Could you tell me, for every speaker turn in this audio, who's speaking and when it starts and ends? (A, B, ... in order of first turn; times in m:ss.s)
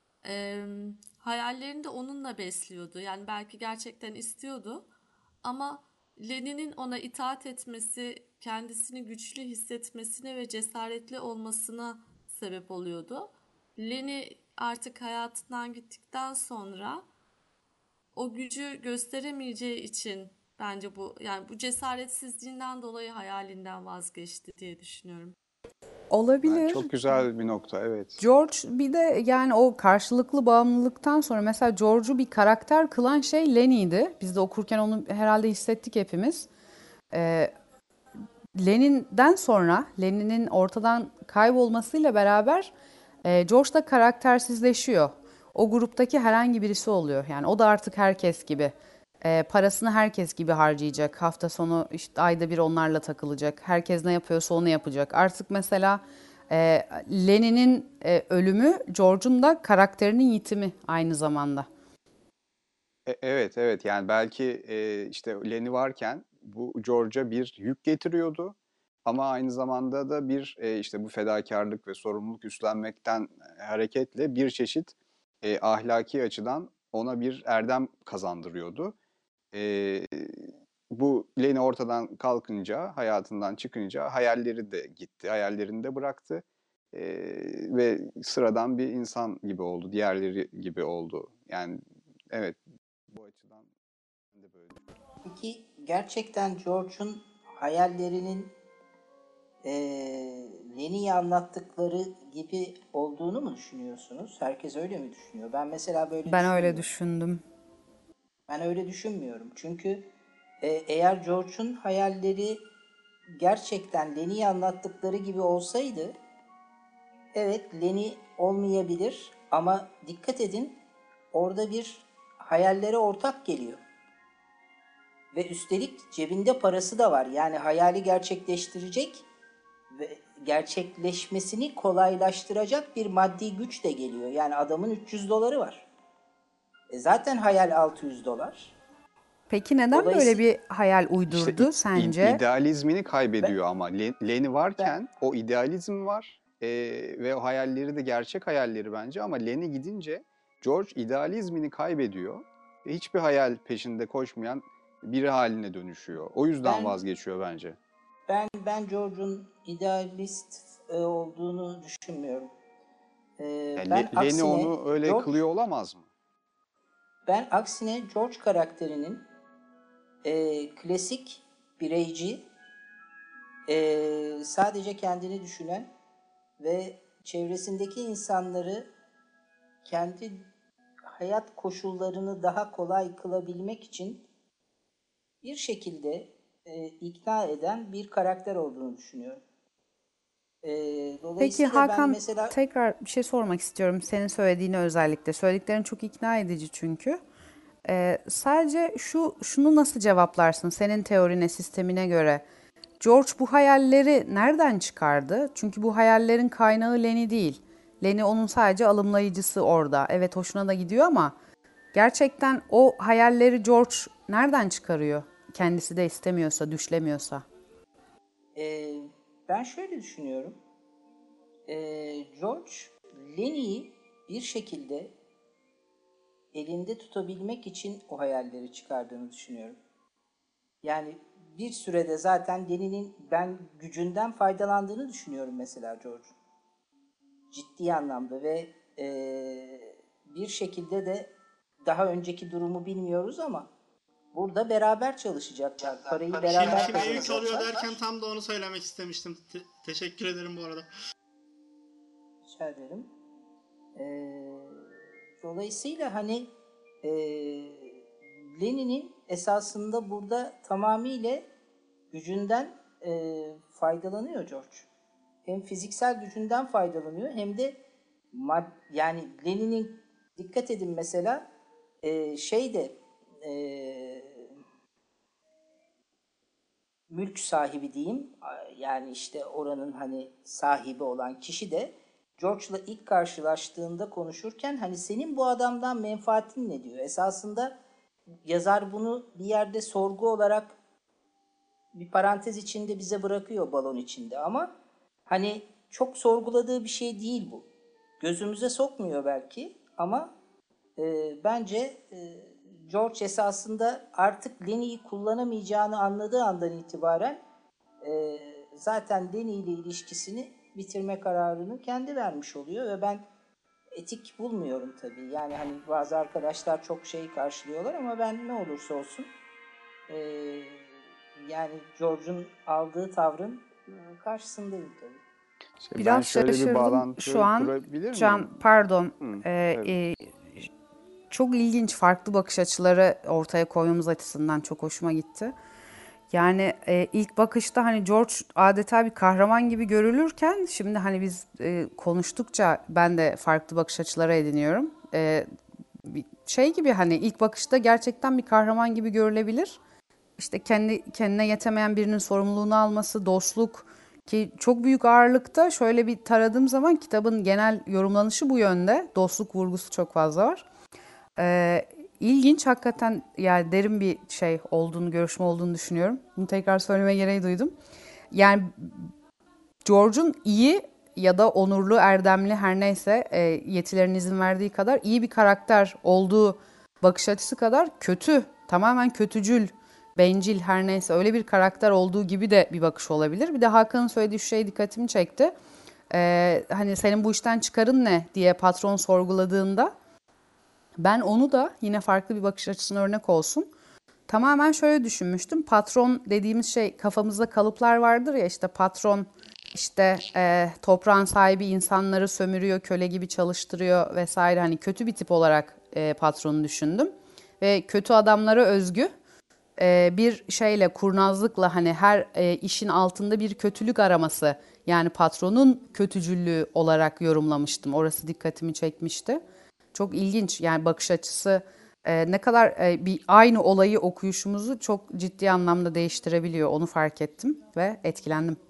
0:00.2-0:04.9 A
0:05.4-0:17.0 A
0:18.1-0:25.3 A
0:26.1-0:26.9 B
0:26.4-0:28.2 C
0:28.2-0:36.5 B
0:37.1-0:37.5 B
0:38.6-0:42.7 B
0:43.2-1:01.7 B
1:03.0-1:19.0 C
1:19.5-1:32.6 C
1:33.1-1:33.7 C
1:34.3-1:34.8 C
1:35.2-1:38.5 D
1:39.6-1:46.8 D
1:46.3-1:47.4 B
1:48.5-1:50.1 D
1:50.6-1:52.6 D
1:53.4-1:56.1 D
1:57.3-2:00.8 D
2:01.3-2:03.8 D
2:05.3-2:09.3 D
2:09.9-2:15.9 D
2:16.9-2:18.8 D
2:19.5-2:22.4 B
2:19.9-2:20.4 D
2:21.3-2:37.8 C
2:36.6-2:37.0 D
2:38.3-2:42.5 D
2:43.4-2:45.4 D
2:43.8-2:46.1 C
2:47.3-2:49.2 D
2:50.2-2:52.4 D
2:53.7-2:55.9 D
2:56.6-2:58.9 D
2:59.8-3:00.5 D
3:01.1-3:04.2 D
3:05.4-3:09.4 D
3:10.6-3:12.5 D
3:11.4-3:17.2 B
3:17.8-3:22.4 B
3:23.0-3:31.3 B
3:31.9-3:37.4 B
3:38.6-3:40.6 D
3:41.7-3:45.1 D
3:46.5-3:49.8 D
3:50.8-3:56.3 D
3:57.5-4:01.3 D
4:01.8-4:03.7 D
4:04.3-4:08.0 D
4:06.3-4:10.9 E
4:12.4-4:13.1 D
4:14.0-4:16.5 D
4:17.0-4:21.5 D
4:22.1-4:24.9 D
4:25.4-4:27.8 D
4:28.3-4:31.4 D
4:32.0-4:34.6 D
4:37.1-4:47.8 D
4:48.4-4:50.8 D
4:52.0-4:54.7 D
4:55.3-4:57.7 D
4:58.2-5:00.3 D
5:01.0-5:07.4 D
5:08.0-5:13.2 D
5:14.0-5:19.3 D
5:20.1-5:25.2 D
5:25.8-5:28.6 C
5:26.0-5:30.7 B
5:29.2-5:29.9 C
5:31.3-5:35.5 B
5:36.3-5:45.5 B
5:46.0-5:49.8 B
5:50.4-6:00.6 B
6:01.4-6:07.7 B
6:08.3-6:09.1 B
6:09.8-6:25.6 B
6:26.1-6:29.9 B
6:31.0-6:33.7 B
6:34.3-6:49.1 B
6:49.8-6:59.4 B
6:59.9-7:08.6 B